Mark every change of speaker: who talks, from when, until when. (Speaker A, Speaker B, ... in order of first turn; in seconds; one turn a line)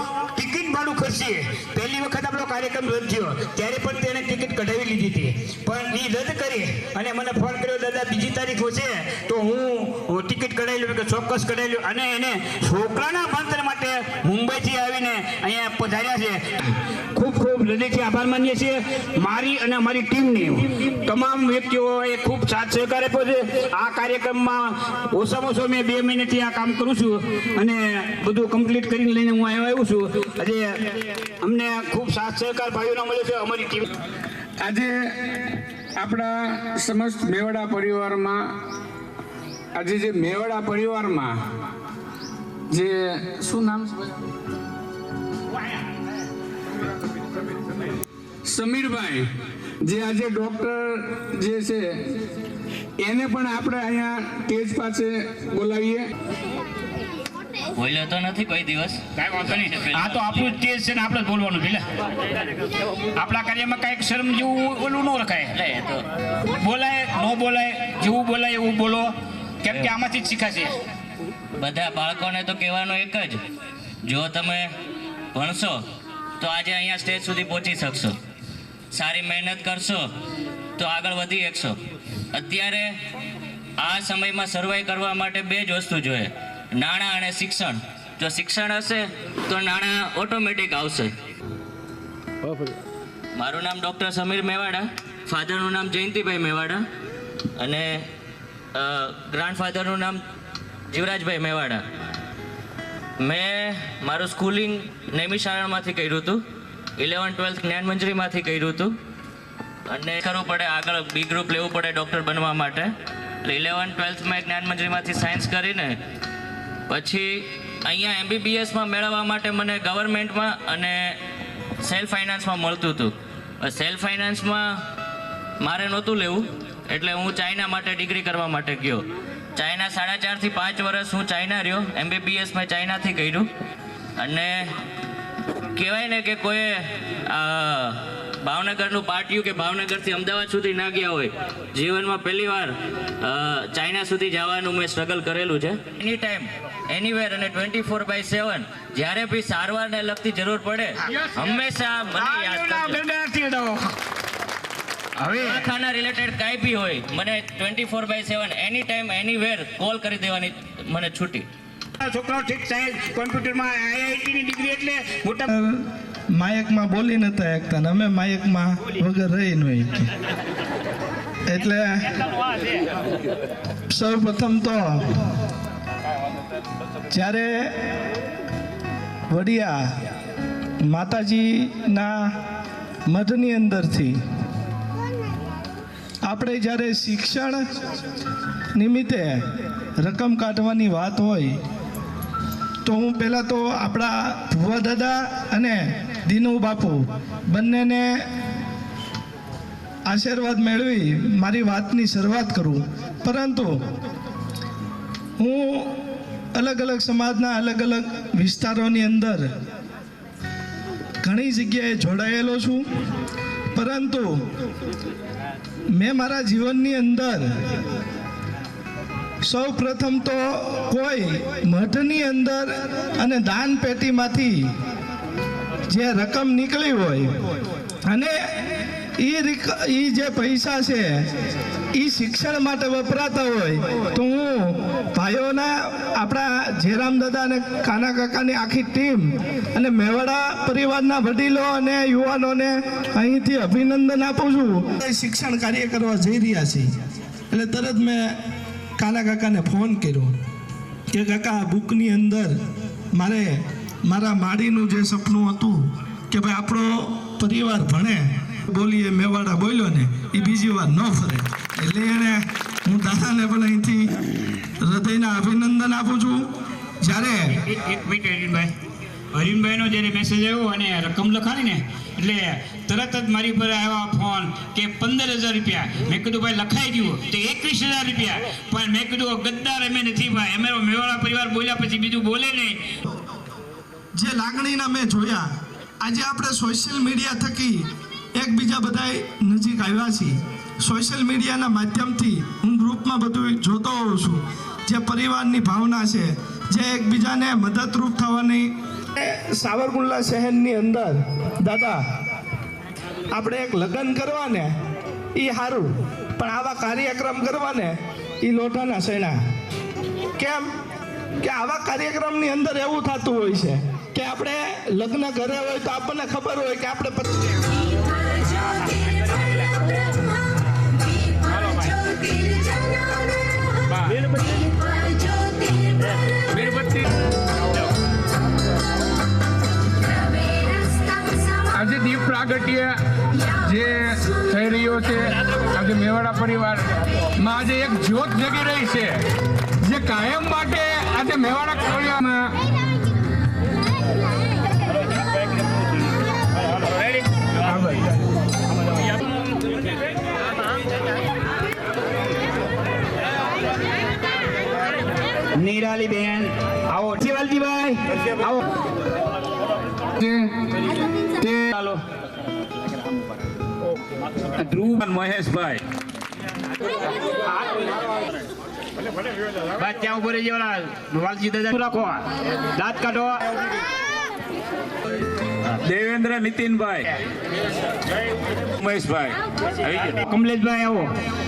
Speaker A: 0.3-30.7
Speaker A: 31.4-33.8
Speaker B: 34.6-34.9
Speaker B: 36.0-38.4
Speaker B: 39.7-41.4
Speaker B: 42.7-44.1
Speaker B: 48.5-49.3
Speaker B: 49.8-51.9
Speaker B: 53.0-56.0
Speaker C: 57.8-60.4
Speaker A: 59.2-61.8
Speaker A: 63.2-65.5
Speaker C: 65.5-66.0
Speaker A: 66.5-69.1
Speaker A: 69.6-70.8
Speaker C: 71.6-73.4
Speaker C: 74.0-74.7
Speaker C: 75.3-75.8
Speaker C: 76.4-78.2
Speaker C: 78.9-80.0
Speaker C: 80.8-81.8
Speaker C: 82.3-82.9
Speaker C: 83.8-91.1
Speaker C: 93.3-96.8
Speaker C: 97.6-98.0
Speaker C: 98.7-100.2
Speaker C: 100.9-101.8
Speaker C: 103.2-106.4
Speaker C: 107.0-108.9
Speaker C: 109.9-112.9
Speaker C: 113.4-115.9
Speaker C: 116.9-121.2
Speaker C: 121.8-124.7
Speaker C: 125.6-133.4
Speaker C: 134.2-134.7
Speaker C: 135.7-153.0
Speaker A: 152.2-153.9
Speaker A: 155.2-155.6
Speaker C: 155.3-161.4
Speaker A: 162.0-165.4
Speaker D: 165.5-165.7
Speaker D: 166.4-169.9
Speaker D: 171.5-171.8
Speaker D: 173.9-175.0
Speaker D: 177.1-177.7
Speaker D: 179.3-179.8
Speaker D: 180.9-182.1
Speaker D: 183.1-184.1
Speaker D: 186.3-187.6
Speaker D: 188.8-189.3
Speaker D: 190.0-191.6
Speaker D: 192.8-197.0
Speaker D: 197.5-198.2
Speaker D: 200.1-203.7
Speaker D: 205.4-205.9
Speaker D: 206.5-209.4
Speaker D: 211.2-212.8
Speaker D: 213.7-214.3
Speaker D: 215.9-217.5
Speaker D: 219.5-224.7
Speaker D: 225.9-227.3
Speaker D: 228.1-228.3
Speaker D: 229.2-231.1
Speaker D: 232.0-246.9
Speaker D: 247.5-248.4
Speaker D: 249.0-250.3
Speaker D: 251.1-252.5
Speaker D: 253.1-255.8
Speaker D: 256.3-264.2
Speaker D: 264.8-266.5
Speaker D: 267.0-267.4
Speaker A: 267.7-268.7
Speaker A: 269.3-282.8
Speaker D: 284.2-285.4
Speaker D: 286.0-302.0
Speaker D: 303.3-304.7
Speaker D: 305.4-309.4
Speaker D: 310.4-310.6
Speaker D: 311.4-317.3
Speaker B: 326.5-327.0
Speaker B: 331.7-332.9
Speaker B: 333.5-336.9
Speaker B: 337.4-339.2
Speaker B: 339.8-342.5
Speaker A: 355.6-358.6
Speaker B: 360.2-360.5
Speaker B: 361.4-361.7
Speaker A: 361.6-362.0
Speaker A: 364.6-365.8
Speaker A: 369.8-372.2
Speaker A: 372.8-373.4
Speaker A: 375.9-377.0
Speaker A: 378.8-379.2
Speaker A: 380.0-381.1